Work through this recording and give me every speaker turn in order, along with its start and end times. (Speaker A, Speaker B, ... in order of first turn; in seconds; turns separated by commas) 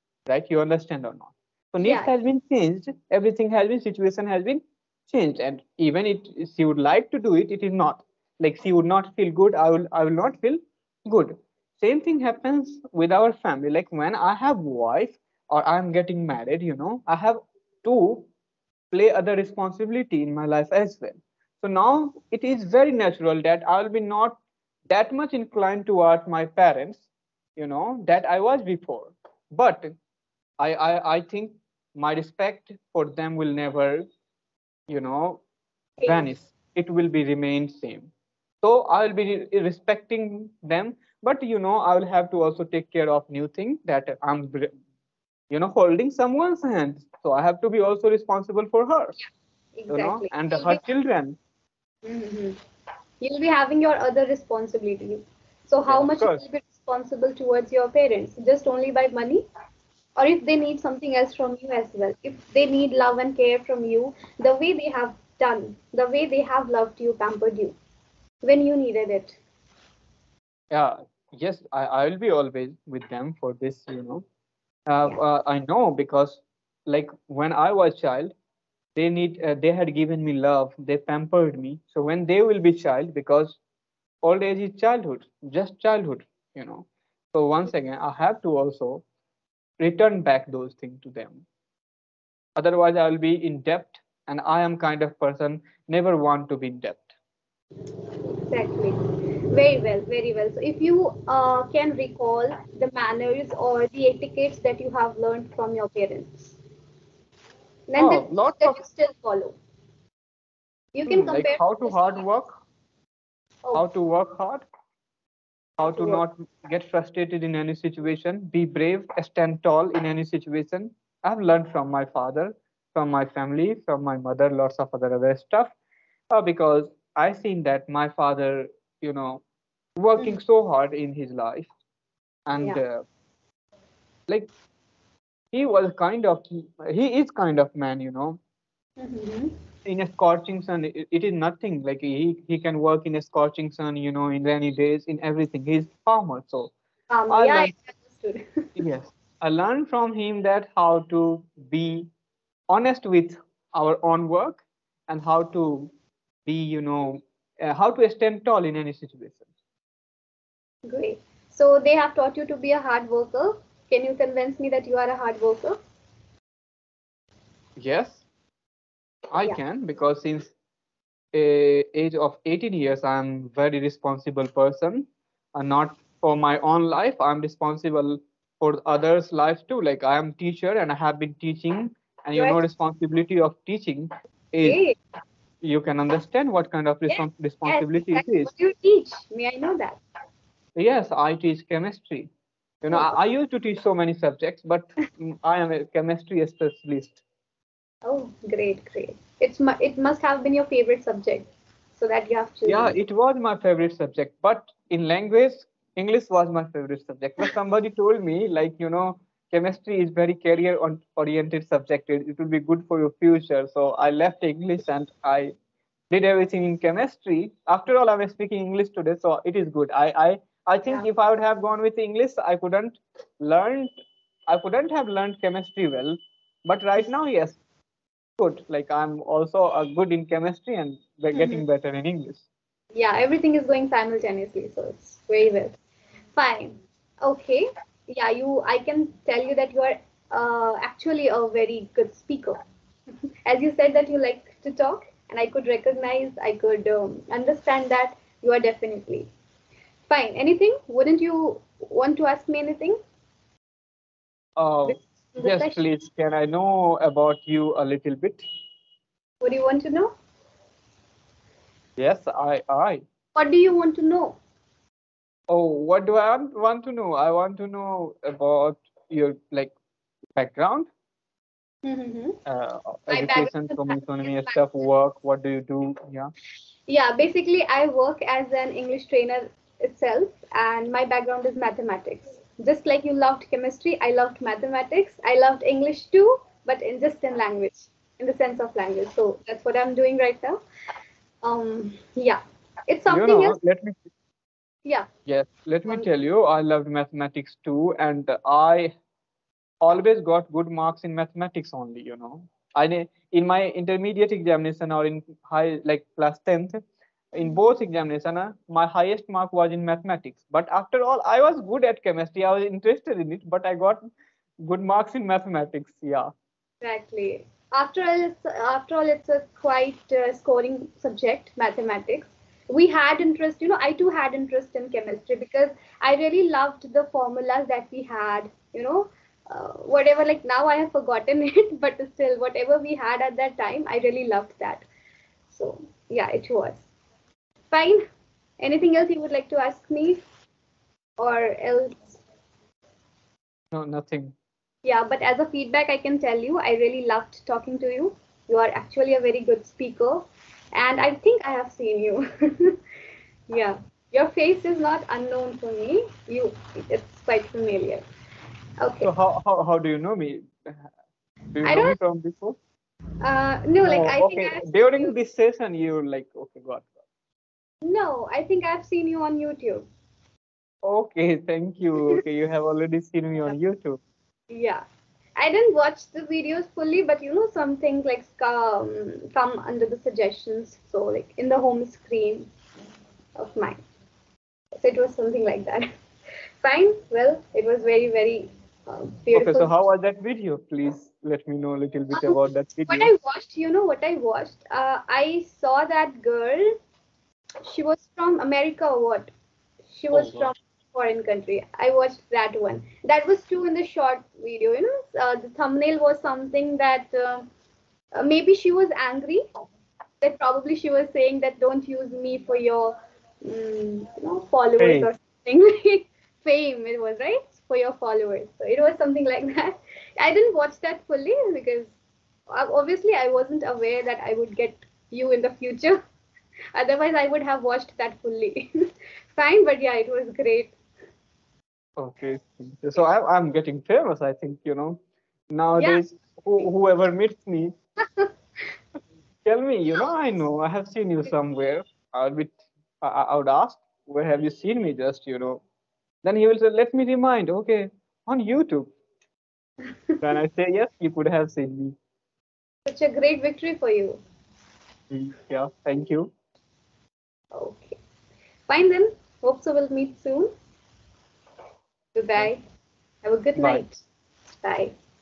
Speaker A: 0.3-18.3, Speaker B: 1.8-2.1, Speaker A: 18.9-27.1, Speaker A: 27.6-29.9, Speaker A: 30.6-34.1, Speaker A: 34.9-35.4, Speaker B: 36.0-36.3, Speaker A: 36.1-38.1, Speaker A: 38.6-44.7, Speaker A: 45.5-49.2, Speaker B: 49.8-50.8, Speaker A: 49.9-51.4, Speaker B: 52.0-52.6, Speaker B: 53.2-59.4, Speaker A: 55.9-56.4, Speaker B: 60.2-67.8, Speaker B: 68.4-69.4, Speaker A: 70.7-74.2, Speaker A: 74.9-78.3, Speaker A: 79.0-83.6, Speaker A: 84.2-89.0, Speaker A: 89.8-91.5, Speaker A: 92.6-97.2, Speaker B: 98.2-99.0, Speaker B: 99.5-106.6, Speaker B: 107.9-109.5, Speaker A: 108.0-108.8, Speaker B: 111.0-112.2, Speaker A: 111.1-112.6, Speaker A: 113.7-114.7, Speaker A: 115.8-125.8, Speaker B: 115.9-116.2, Speaker A: 126.3-129.4, Speaker A: 130.0-131.7, Speaker A: 132.5-133.0, Speaker A: 135.5-138.4, Speaker B: 139.0-139.5, Speaker A: 139.8-146.7, Speaker B: 147.1-148.8, Speaker A: 147.3-147.7, Speaker A: 148.8-152.1, Speaker A: 152.7-155.9, Speaker A: 156.5-159.5, Speaker B: 160.9-165.8, Speaker A: 167.8-168.2, Speaker A: 169.3-170.5, Speaker A: 171.3-184.8, Speaker B: 182.4-182.6, Speaker B: 184.6-184.9, Speaker A: 185.6-188.5, Speaker B: 187.1-190.0, Speaker A: 190.8-192.3, Speaker A: 192.8-197.2, Speaker B: 192.9-193.2, Speaker B: 198.1-203.0, Speaker A: 202.7-215.5, Speaker A: 216.1-223.9, Speaker A: 224.5-227.6, Speaker A: 228.4-232.5, Speaker B: 231.3-231.7, Speaker B: 232.9-235.8, Speaker B: 236.4-242.6, Speaker B: 243.5-249.3, Speaker B: 250.1-253.0, Speaker A: 254.6-258.4, Speaker B: 254.8-255.8, Speaker B: 259.4-260.1, Speaker A: 262.0-263.0, Speaker B: 263.4-264.4, Speaker A: 265.5-269.7, Speaker A: 270.4-270.9, Speaker B: 271.8-272.4, Speaker A: 272.5-276.3, Speaker B: 273.1-274.6, Speaker B: 276.9-290.6, Speaker B: 291.4-293.6, Speaker A: 293.1-294.0, Speaker A: 295.3-298.9, Speaker A: 299.8-306.8, Speaker A: 307.3-314.0, Speaker A: 314.6-316.3, Speaker B: 316.8-334.9, Speaker B: 335.5-336.9, Speaker B: 337.7-338.0, Speaker B: 338.6-340.2, Speaker B: 341.2-342.2, Speaker A: 343.7-344.4, Speaker B: 344.8-352.8, Speaker B: 353.5-358.0, Speaker B: 358.8-359.1, Speaker A: 359.0-360.9, Speaker A: 361.6-362.6, Speaker B: 361.6-362.0, Speaker B: 363.2-365.1, Speaker A: 363.9-366.9, Speaker B: 367.8-369.9, Speaker A: 370.8-374.0, Speaker B: 374.5-374.8, Speaker B: 375.4-382.5, Speaker B: 383.4-383.8, Speaker B: 384.8-385.9, Speaker B: 386.6-389.9, Speaker A: 389.3-393.1, Speaker B: 392.1-396.7, Speaker B: 397.6-399.3, Speaker B: 399.9-407.5, Speaker A: 400.1-400.5, Speaker B: 408.1-409.4, Speaker B: 410.2-421.9, Speaker A: 414.8-415.1, Speaker B: 422.5-426.0, Speaker B: 426.8-428.7, Speaker B: 429.4-430.8, Speaker A: 432.0-437.7, Speaker B: 435.8-436.0, Speaker B: 438.0-438.3, Speaker A: 439.4-445.6, Speaker A: 446.2-448.9, Speaker B: 449.9-450.3, Speaker A: 450.2-452.0, Speaker B: 452.9-454.2, Speaker A: 455.1-456.3, Speaker B: 457.5-458.0, Speaker B: 458.7-460.5, Speaker B: 462.1-462.6, Speaker B: 463.2-464.9, Speaker A: 463.6-463.9